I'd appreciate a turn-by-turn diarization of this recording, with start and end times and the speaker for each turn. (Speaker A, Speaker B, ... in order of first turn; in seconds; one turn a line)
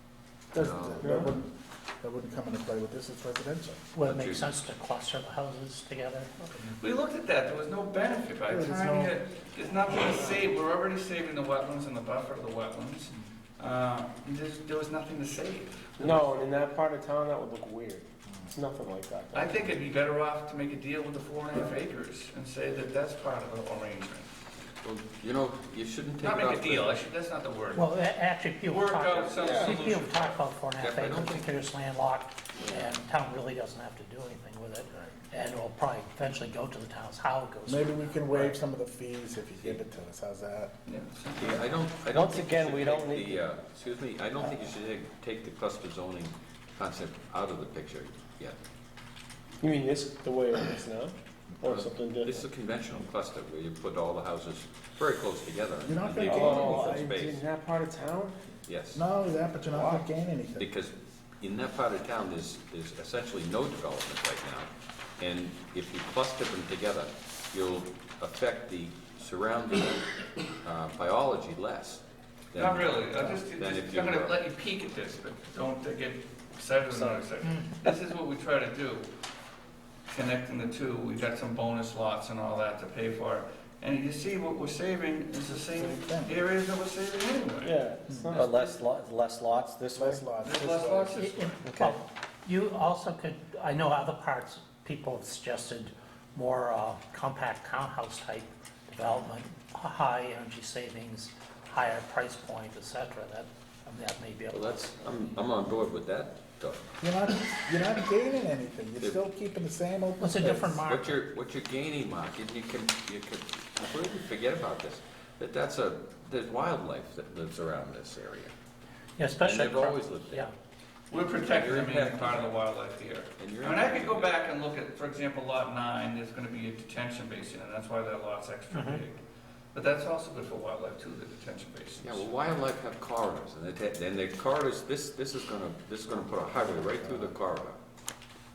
Speaker A: 0.5-3.9
Speaker B: 0.5-1.1
Speaker C: 1.0-1.4
Speaker D: 3.9-6.3
Speaker B: 4.0-4.5
Speaker A: 6.5-6.7
Speaker E: 6.8-16.3
Speaker A: 8.5-9.2
Speaker C: 16.0-19.6
Speaker E: 19.3-24.3
Speaker B: 24.8-27.0
Speaker E: 26.2-27.9
Speaker D: 27.7-38.1
Speaker E: 28.7-30.4
Speaker C: 29.4-29.7
Speaker B: 30.8-31.6
Speaker A: 37.7-40.7
Speaker E: 40.9-41.7
Speaker B: 41.4-48.6
Speaker F: 42.1-43.4
Speaker C: 49.6-52.5
Speaker B: 51.6-57.4
Speaker A: 55.8-57.2
Speaker C: 56.2-58.4
Speaker B: 58.7-59.0
Speaker A: 58.9-60.6
Speaker C: 59.7-60.0
Speaker B: 60.6-70.1
Speaker B: 70.6-74.4
Speaker E: 72.5-79.1
Speaker D: 77.4-77.8
Speaker E: 80.1-87.7
Speaker A: 85.6-86.4
Speaker C: 87.6-88.7
Speaker F: 88.3-90.2
Speaker A: 89.9-91.2
Speaker E: 90.4-91.9
Speaker D: 91.1-104.8
Speaker B: 104.5-106.8
Speaker A: 107.0-110.8
Speaker D: 110.2-111.2
Speaker B: 110.7-118.5
Speaker D: 119.2-120.5
Speaker B: 119.4-120.4
Speaker E: 121.1-129.2
Speaker B: 121.4-122.5
Speaker B: 123.4-124.4
Speaker D: 128.7-129.0
Speaker E: 129.7-132.2
Speaker B: 132.0-137.8